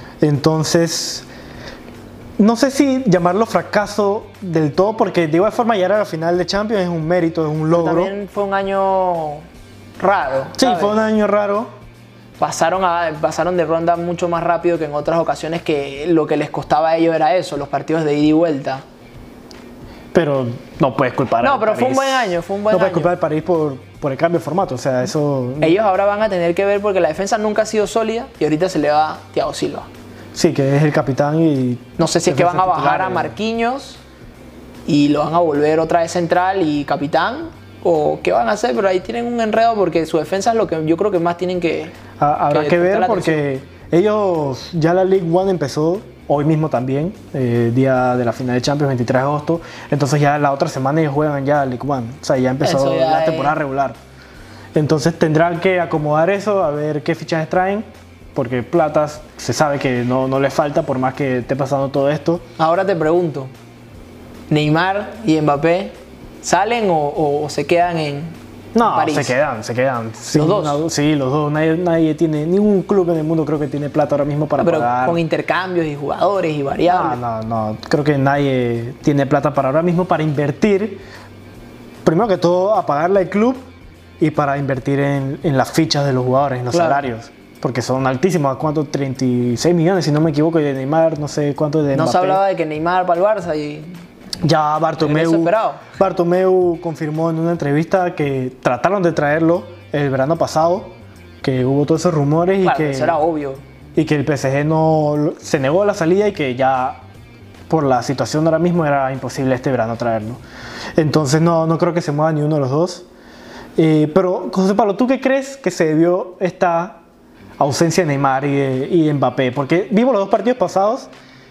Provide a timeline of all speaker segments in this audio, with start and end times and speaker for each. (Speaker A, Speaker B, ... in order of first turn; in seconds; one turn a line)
Speaker A: 0.2-1.3
Speaker A: 2.4-8.1
Speaker B: 7.7-9.4
Speaker B: 10.0-11.0
Speaker A: 10.6-11.7
Speaker B: 12.4-18.8
Speaker A: 20.1-25.8
Speaker B: 21.4-23.1
Speaker B: 25.6-29.9
Speaker A: 30.3-33.4
Speaker B: 32.0-34.0
Speaker B: 34.9-41.9
Speaker A: 42.2-54.0
Speaker B: 42.5-43.4
Speaker B: 52.6-53.6
Speaker A: 54.7-62.4
Speaker B: 62.6-63.5
Speaker B: 64.5-69.3
Speaker A: 68.7-75.2
Speaker B: 70.3-70.8
Speaker B: 74.6-77.2
Speaker A: 76.8-81.0
Speaker A: 82.0-83.7
Speaker A: 84.2-92.4
Speaker B: 86.7-87.0
Speaker B: 91.9-93.9
Speaker A: 94.4-103.2
Speaker B: 95.0-95.8
Speaker B: 102.6-103.6
Speaker A: 103.9-107.0
Speaker A: 107.7-110.4
Speaker A: 111.0-113.0
Speaker A: 113.8-117.0
Speaker A: 117.6-121.1